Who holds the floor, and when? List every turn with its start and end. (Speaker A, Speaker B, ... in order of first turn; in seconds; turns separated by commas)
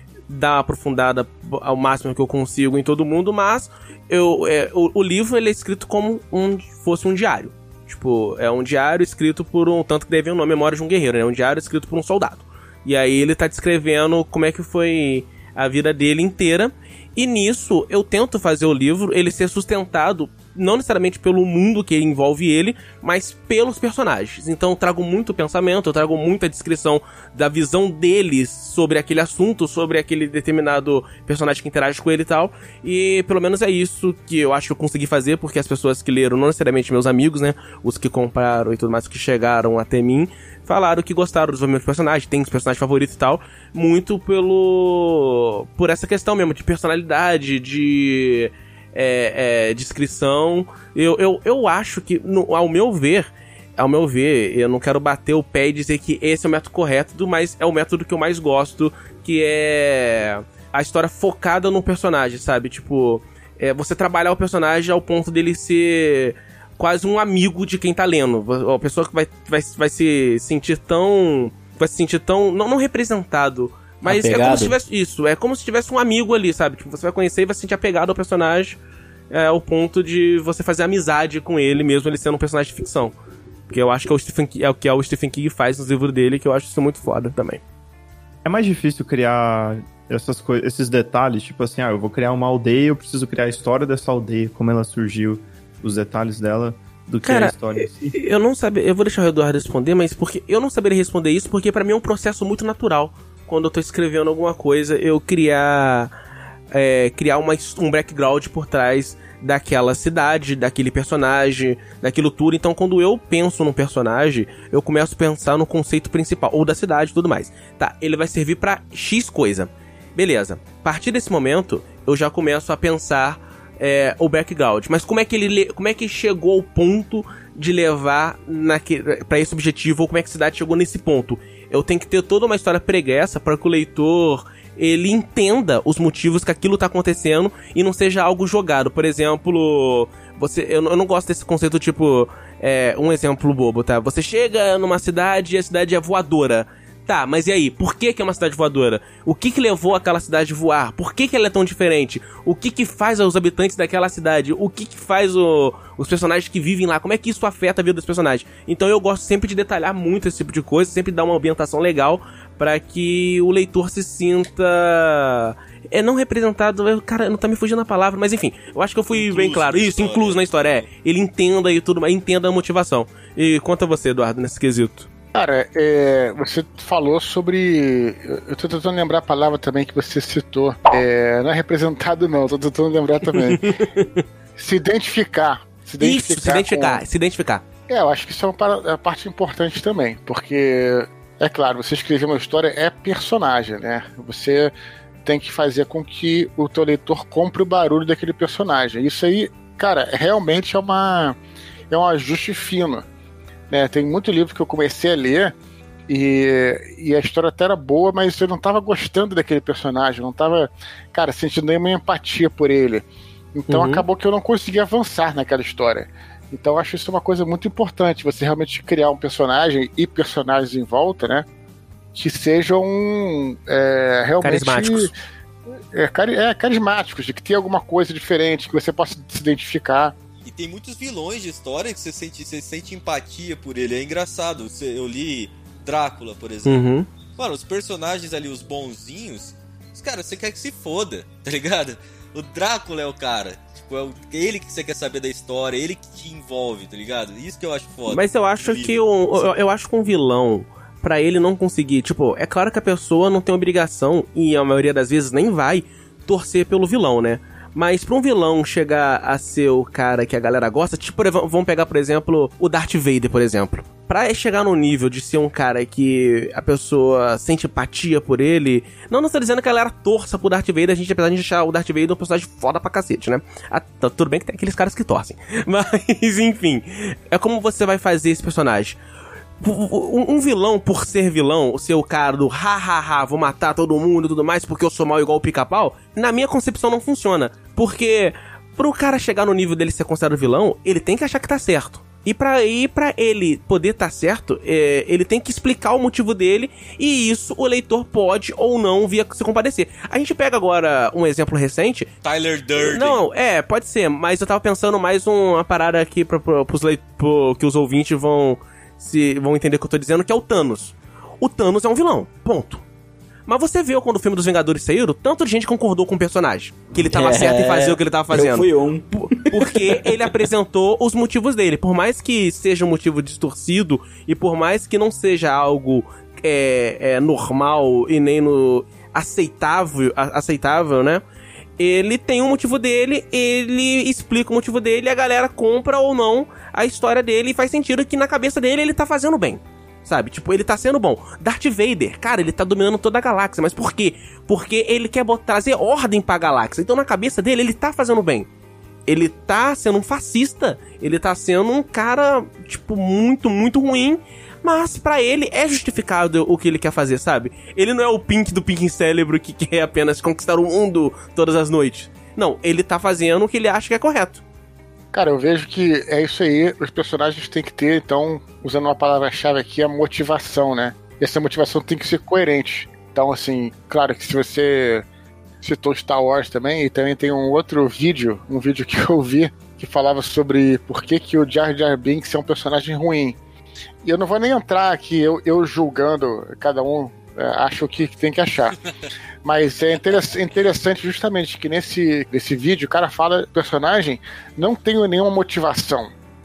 Speaker A: 0.3-78.8, Speaker B: 74.0-74.8, Speaker A: 79.3-83.1, Speaker A: 83.7-87.6, Speaker C: 88.4-98.1, Speaker A: 97.2-106.1, Speaker A: 106.7-175.1, Speaker D: 169.1-170.9, Speaker E: 175.3-183.6, Speaker A: 183.4-184.2, Speaker E: 184.6-187.0, Speaker A: 186.0-187.6, Speaker E: 187.9-194.7, Speaker E: 195.2-201.4, Speaker E: 201.9-203.0, Speaker E: 203.7-205.5, Speaker E: 206.1-221.4, Speaker A: 213.7-214.0, Speaker E: 222.1-225.1, Speaker A: 224.4-225.1, Speaker E: 225.9-230.1, Speaker D: 230.4-249.5, Speaker A: 236.7-237.1, Speaker A: 248.1-279.0, Speaker A: 279.6-302.1, Speaker D: 302.2-303.2, Speaker A: 302.8-312.8, Speaker A: 313.5-318.7, Speaker B: 316.9-320.3, Speaker A: 319.2-331.2, Speaker A: 331.8-348.5, Speaker A: 349.1-364.4, Speaker E: 365.1-375.1, Speaker E: 375.6-383.4, Speaker E: 384.0-388.8, Speaker E: 389.4-396.1